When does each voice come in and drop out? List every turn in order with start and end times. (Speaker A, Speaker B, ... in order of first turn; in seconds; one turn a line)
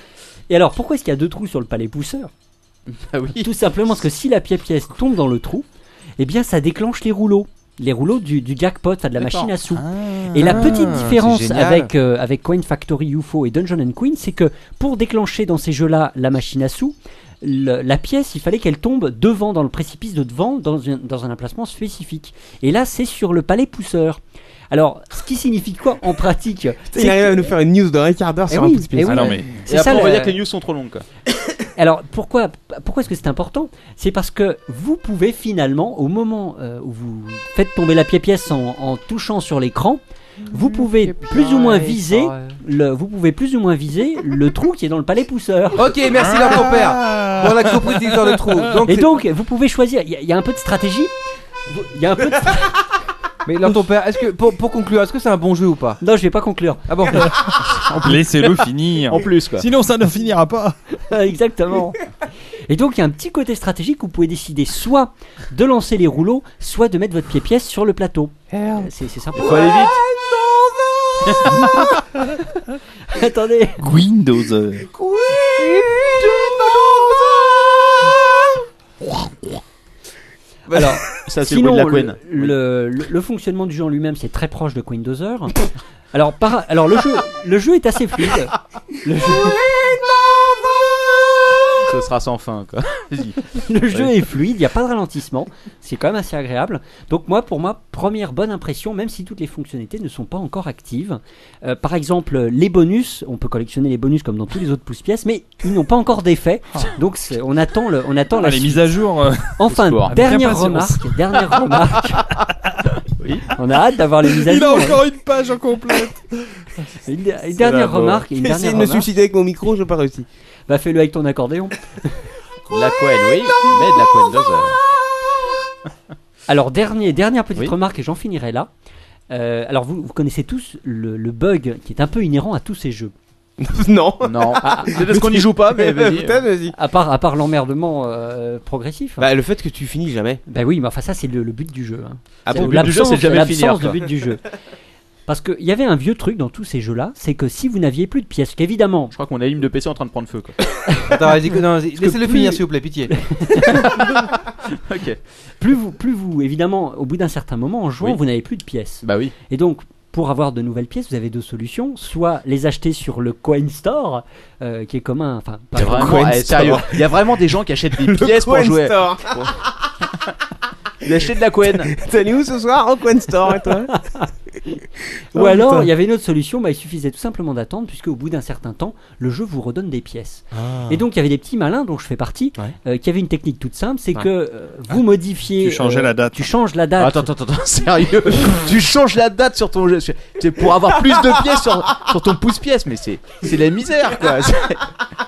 Speaker A: 0.5-2.3
Speaker B: 2.9-3.5
Speaker A: 3.4-5.7
Speaker A: 6.2-24.2
Speaker B: 9.2-9.5
Speaker C: 9.7-11.0
Speaker D: 10.3-11.9
Speaker A: 24.7-27.5
Speaker E: 26.9-29.3
Speaker A: 28.5-30.4
Speaker D: 28.6-29.5
Speaker C: 29.1-29.6
Speaker B: 29.7-31.0
Speaker A: 31.7-46.0
Speaker D: 40.5-42.6
Speaker D: 45.7-49.1
Speaker C: 46.1-48.8
Speaker A: 48.9-51.1
Speaker A: 51.7-52.8
Speaker D: 53.4-56.0
Speaker A: 56.0-57.3
Speaker D: 56.9-57.3
Speaker C: 57.3-60.8
Speaker B: 57.8-58.2
Speaker B: 59.1-59.7
Speaker A: 61.0-62.1
Speaker A: 62.7-69.8
Speaker E: 68.5-68.8
Speaker B: 69.4-70.0
Speaker E: 69.5-69.9
Speaker A: 71.3-71.8
Speaker C: 71.6-72.0
Speaker A: 73.1-73.9
Speaker C: 73.8-74.9
Speaker E: 74.9-77.5
Speaker A: 80.7-85.6
Speaker B: 81.2-82.5
Speaker A: 86.1-89.6
Speaker B: 91.8-94.1
Speaker A: 93.6-108.9
Speaker C: 108.4-111.7
Speaker A: 109.5-112.3
Speaker B: 109.7-110.2
Speaker A: 113.5-115.0
Speaker C: 114.3-116.2
Speaker A: 117.0-119.1
Speaker C: 117.6-118.2
Speaker E: 118.3-120.3
Speaker A: 120.7-121.9
Speaker B: 122.7-124.8
Speaker A: 126.5-128.7
Speaker A: 129.3-133.1
Speaker E: 133.6-136.7
Speaker B: 134.2-136.4
Speaker A: 134.6-135.0
Speaker A: 136.7-139.2
Speaker E: 139.2-140.4
Speaker A: 140.5-144.4
Speaker E: 142.4-143.0
Speaker B: 142.5-144.0
Speaker A: 145.3-149.1
Speaker B: 149.1-150.6
Speaker A: 150.9-151.2
Speaker D: 151.1-153.1
Speaker A: 151.9-154.2
Speaker B: 153.7-155.2
Speaker A: 155.6-166.8
Speaker B: 159.0-159.3
Speaker B: 165.8-169.5
Speaker E: 165.8-167.4
Speaker E: 167.9-169.7
Speaker B: 171.0-171.9
Speaker E: 171.6-173.9
Speaker A: 174.0-174.3
Speaker E: 175.3-175.9
Speaker A: 175.3-187.3
Speaker C: 185.6-186.5
Speaker B: 187.0-194.9